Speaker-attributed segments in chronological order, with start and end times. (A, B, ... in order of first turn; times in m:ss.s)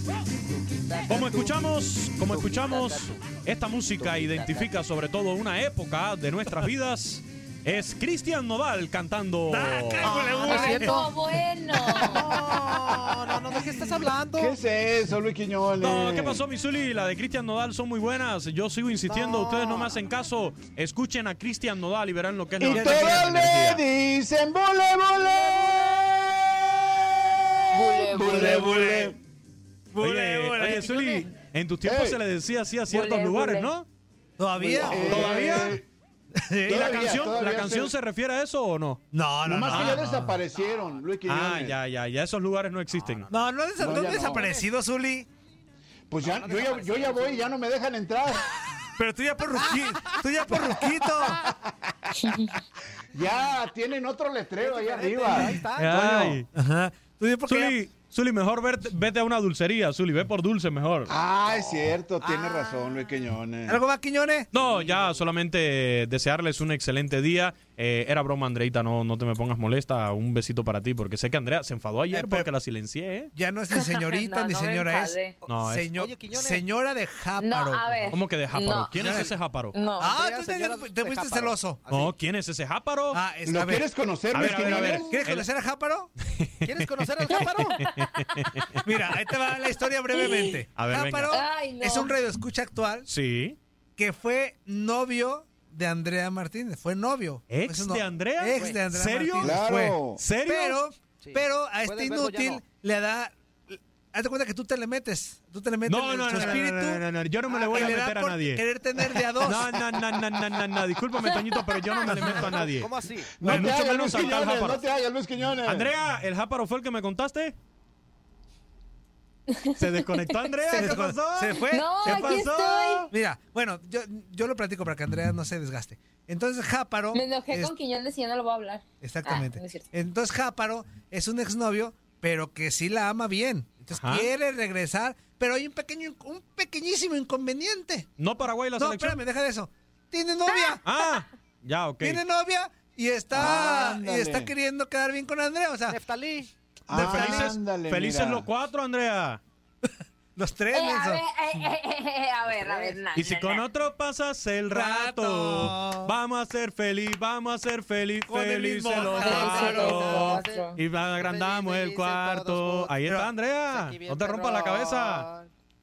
0:00.5-0:01.6 A
0:01.1-0:10.9 B
0:02.3-0:03.2 A
0:04.0-0:04.7 A
0:09.5-0:10.6 C
0:10.0-0:11.2 A
0:10.2-0:12.4 D
0:11.9-0:14.5 A
0:13.4-0:14.4 C
0:14.3-0:16.4 E
0:15.8-0:23.8 B
0:19.1-0:19.9 A
0:22.6-0:26.8 E
0:27.7-0:29.2 E
0:27.7-0:29.1 D
0:29.9-0:31.2 C
0:30.0-0:33.8 B
0:31.8-0:32.2 E
0:32.9-0:33.7 D
0:34.4-0:35.4 C
0:34.6-0:35.8 E
0:34.7-0:35.8 B
0:36.3-0:36.8 C
0:36.6-0:37.9 E
0:36.7-0:39.0 B
0:39.1-0:40.4 C
0:39.4-0:41.8 E
0:39.7-0:40.1 B
0:41.2-0:43.3 B
0:43.3-0:45.3 C
0:43.8-0:44.5 E
0:44.0-0:44.6 A
0:46.1-0:48.4 E
0:46.2-0:47.6 A
0:49.0-0:51.4 C
0:50.5-0:51.4 E
0:52.2-0:52.5 D
0:53.1-0:55.6 E
0:54.6-0:56.3 A
0:55.8-0:56.4 B
0:56.1-0:57.8 C
0:57.4-1:01.1 B
1:01.1-1:03.8 E
1:01.4-1:01.8 A
1:02.2-1:02.8 C
1:03.6-1:04.5 C
1:04.5-1:13.3 B
1:04.6-1:05.1 A
1:12.1-1:12.5 C
1:13.3-1:18.2 C
1:13.7-1:15.4 D
1:15.4-1:15.9 B
1:15.4-1:16.6 A
1:17.4-1:19.0 D
1:18.1-1:19.7 B
1:19.0-1:19.3 C
1:19.7-1:20.0 D
1:20.0-1:21.8 C
1:20.0-1:22.1 A
1:21.9-1:23.2 B
1:23.1-1:23.9 C
1:23.4-1:25.2 E
1:24.3-1:25.5 B
1:24.5-1:26.1 C
1:26.4-1:26.7 B
1:26.6-1:27.8 A
1:27.3-1:28.6 D
1:27.3-1:29.2 B
1:28.8-1:33.1 C
1:29.5-1:30.6 D
1:30.7-1:31.4 B
1:31.2-1:32.2 D
1:33.1-1:33.6 B
1:34.0-1:49.8 C
1:37.5-1:40.8 B
1:38.5-1:38.8 A
1:39.4-1:40.2 E
1:41.2-1:42.6 A
1:45.8-1:52.9 B
1:51.3-1:51.8 D
1:52.0-1:52.5 C
1:52.1-1:53.5 A
1:53.3-1:55.9 E
1:53.4-1:54.8 B
1:53.5-1:54.1 C
1:55.6-1:57.5 B
1:59.5-2:00.9 D
1:59.8-2:03.1 B
2:00.6-2:02.4 C
2:01.6-2:03.1 D
2:03.1-2:07.7 C
2:07.1-2:09.9 D
2:09.0-2:18.1 C
2:13.9-2:14.3 B
2:18.2-2:19.2 B
2:18.8-2:20.8 C
2:20.4-2:21.2 D
2:20.8-2:22.2 B
2:22.0-2:26.0 C
2:23.3-2:24.5 E
2:25.9-2:26.5 A
2:26.9-2:28.4 E
2:26.9-2:27.3 C
2:26.9-2:29.4 B
2:29.8-2:31.2 C
2:30.7-2:33.6 D
2:32.4-2:33.0 A
2:33.1-2:45.2 B
2:34.7-2:36.1 C
2:38.3-2:40.2 C
2:38.9-2:45.5 A
2:39.2-2:40.8 D